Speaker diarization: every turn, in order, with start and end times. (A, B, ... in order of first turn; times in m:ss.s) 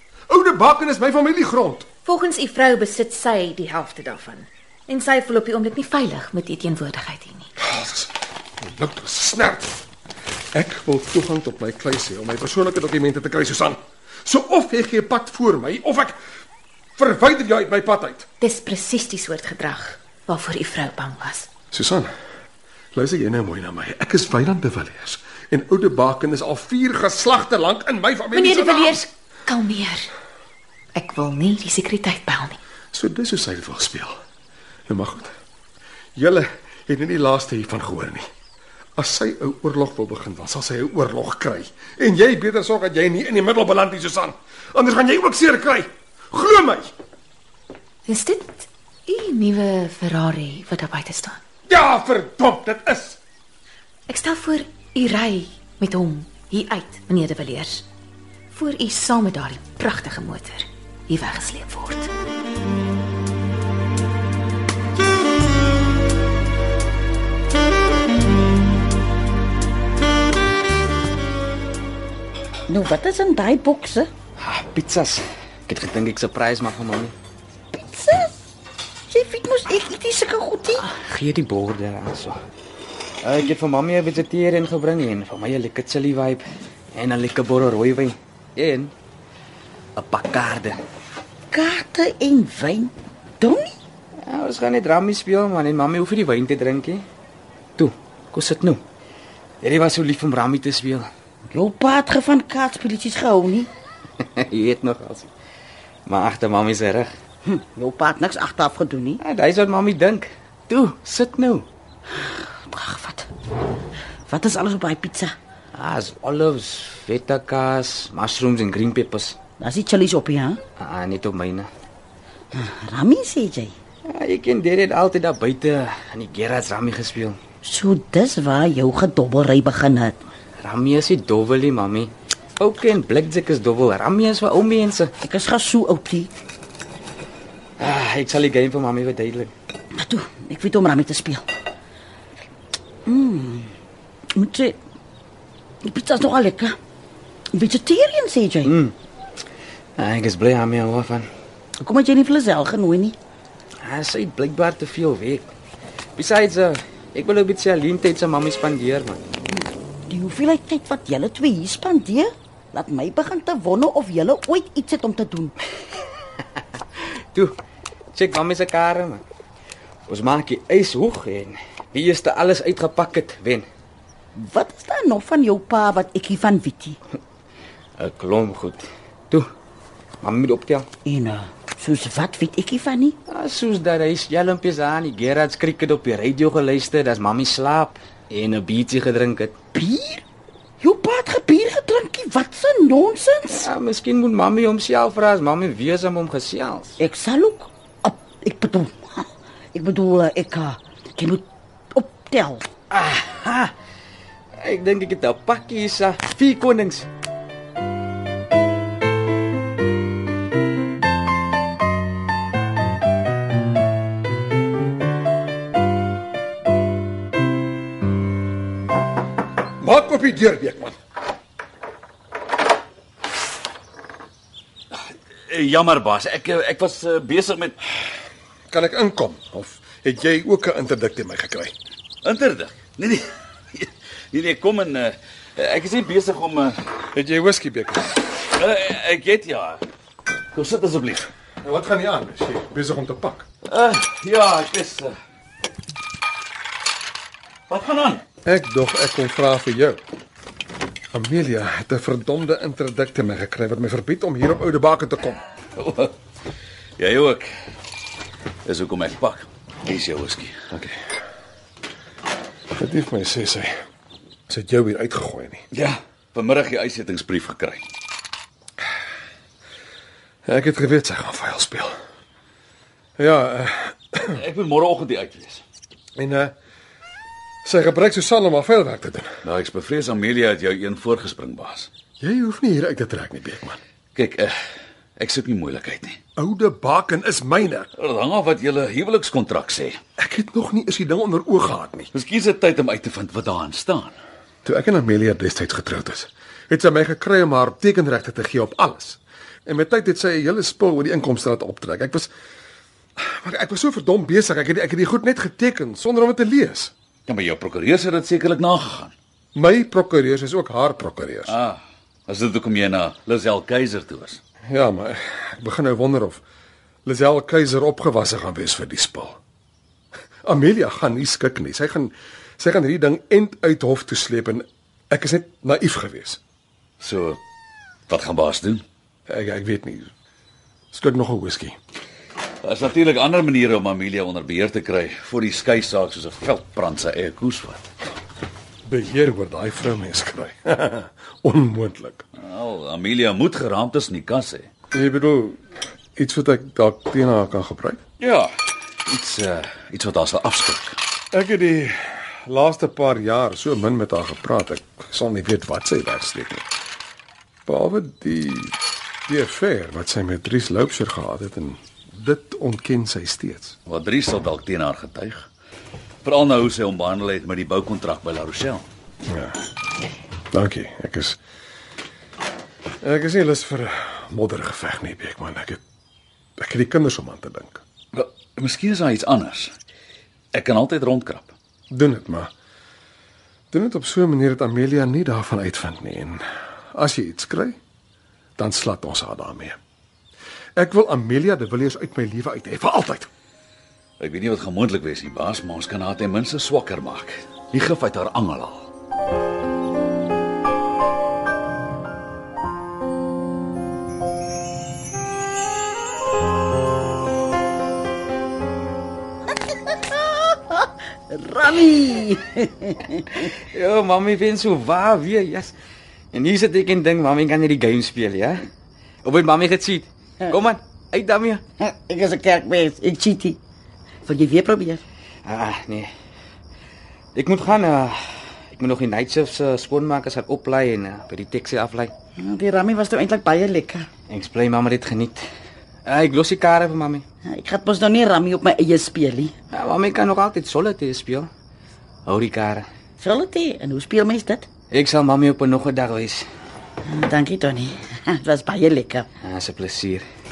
0:00.3-0:01.9 A
0:02.0-0:07.5 B
0:07.6-0:09.8 A
0:10.5-0:16.2 A
0:17.0-0:18.2 A
0:18.4-0:21.5 B
0:21.7-0:22.1 A
0:22.9-0:29.0 A
0:28.3-0:30.1 B
0:30.9-0:32.6 B
0:32.9-0:34.2 A
0:34.9-0:35.3 A
0:36.2-0:38.2 A
0:39.0-0:46.9 A
0:48.1-0:51.4 B
0:51.7-0:53.2 A
0:54.1-0:57.8 B
0:58.5-1:02.1 B
1:12.7-1:14.1 C
1:14.4-1:17.1 D
1:17.8-1:18.3 C
1:19.1-1:20.9 C
1:20.8-1:22.4 D
1:23.2-1:28.9 D
1:30.0-1:30.8 D
1:31.5-1:33.8 C
1:34.2-1:37.0 D
1:37.8-1:38.8 D
1:39.6-1:41.1 D
1:41.5-1:43.7 C
1:44.2-1:45.3 D
1:46.1-1:47.1 D
1:47.4-1:49.2 C
1:49.2-1:51.7 D
1:52.1-1:53.3 C
1:54.3-1:55.3 C
1:55.7-1:59.4 D
1:59.6-2:00.6 C
2:00.8-2:01.7 D
2:02.5-2:03.7 C
2:04.1-2:07.4 D
2:07.6-2:10.2 C
2:10.6-2:15.1 D
2:15.2-2:16.3 C
2:17.8-2:19.5 D
2:20.0-2:21.5 C
2:23.0-2:23.7 C
2:24.3-2:24.8 C
2:25.8-2:26.8 C
2:27.5-2:28.7 C
2:28.6-2:28.9 D
2:30.0-2:31.3 D
2:31.8-2:33.2 C
2:33.8-2:35.5 D
2:36.2-2:39.2 D
2:39.6-2:45.5 C
2:47.0-2:47.5 D
2:48.1-2:49.2 D
2:50.1-2:53.7 D
2:54.3-2:57.0 C
2:58.0-2:59.5 D
3:00.2-3:00.8 D
3:01.0-3:03.2 C
3:03.3-3:09.5 D
3:09.7-3:10.2 C
3:10.8-3:13.7 C
3:13.5-3:17.0 D
3:17.0-3:22.7 C
3:22.9-3:23.7 D
3:24.6-3:27.1 D
3:39.8-3:41.0 A
3:45.5-3:47.8 E
3:48.7-3:51.7 A
3:52.2-3:56.8 E
3:57.1-3:58.2 A
3:58.4-3:59.8 E
4:00.5-4:01.3 E
4:01.6-4:03.5 A
4:03.7-4:05.1 E
4:07.7-4:08.2 E
4:08.4-4:10.0 A
4:11.1-4:15.4 A
4:15.8-4:16.1 E
4:17.0-4:17.5 E
4:18.6-4:20.5 E
4:22.8-4:23.7 A
4:24.5-4:25.6 A
4:25.7-4:27.8 E
4:30.5-4:31.9 A
4:33.2-4:34.4 A
4:34.3-4:35.6 E
4:36.2-4:36.5 A
4:37.6-4:39.3 A
4:39.4-4:41.9 E
4:42.2-4:43.8 A
4:44.1-4:44.5 E
4:45.2-4:46.2 E
4:46.4-4:47.9 A
4:48.0-4:50.0 E
4:50.2-4:52.1 A
4:52.1-4:54.1 E
4:54.6-5:02.3 A
5:03.2-5:06.9 A
5:07.3-5:09.1 E
5:09.5-5:11.5 A
5:11.4-5:14.4 E
5:14.7-5:16.4 A
5:17.0-5:19.4 A
5:20.4-5:26.4 A
5:27.0-5:27.4 E
5:28.1-5:28.8 E
5:29.3-5:30.1 A
5:30.9-5:31.8 A
5:32.6-5:37.8 E
5:38.9-5:42.2 A
5:42.4-5:44.7 E
5:44.9-5:45.6 A
5:46.2-5:48.0 A
5:48.2-5:48.5 E
5:49.0-5:51.0 E
5:51.3-5:56.6 A
5:57.6-5:58.8 A
5:59.3-6:03.8 A
6:03.9-6:05.5 E
6:06.2-6:08.9 E
6:09.3-6:09.6 A
6:10.5-6:11.4 A
6:13.0-6:15.8 A
6:16.6-6:17.8 A
6:18.1-6:19.7 E
6:20.5-6:21.5 E
6:21.9-6:22.5 A
6:23.7-6:26.4 A
6:27.0-6:27.8 A
6:28.6-6:29.8 A
6:30.8-6:33.3 A
6:34.2-6:38.9 E
6:49.9-6:53.4 C
6:53.5-6:55.7 D
6:56.3-6:58.6 D
6:59.2-7:01.6 D
7:01.8-7:03.6 C
7:04.2-7:05.0 C
7:05.4-7:06.1 D
7:07.4-7:12.1 D
7:12.4-7:14.1 C
7:14.3-7:15.4 D
7:16.0-7:17.2 D
7:17.4-7:19.6 C
7:19.7-7:21.5 D
7:22.2-7:22.9 D
7:23.2-7:24.7 C
7:24.9-7:26.5 D
7:27.0-7:29.3 C
7:29.4-7:30.2 D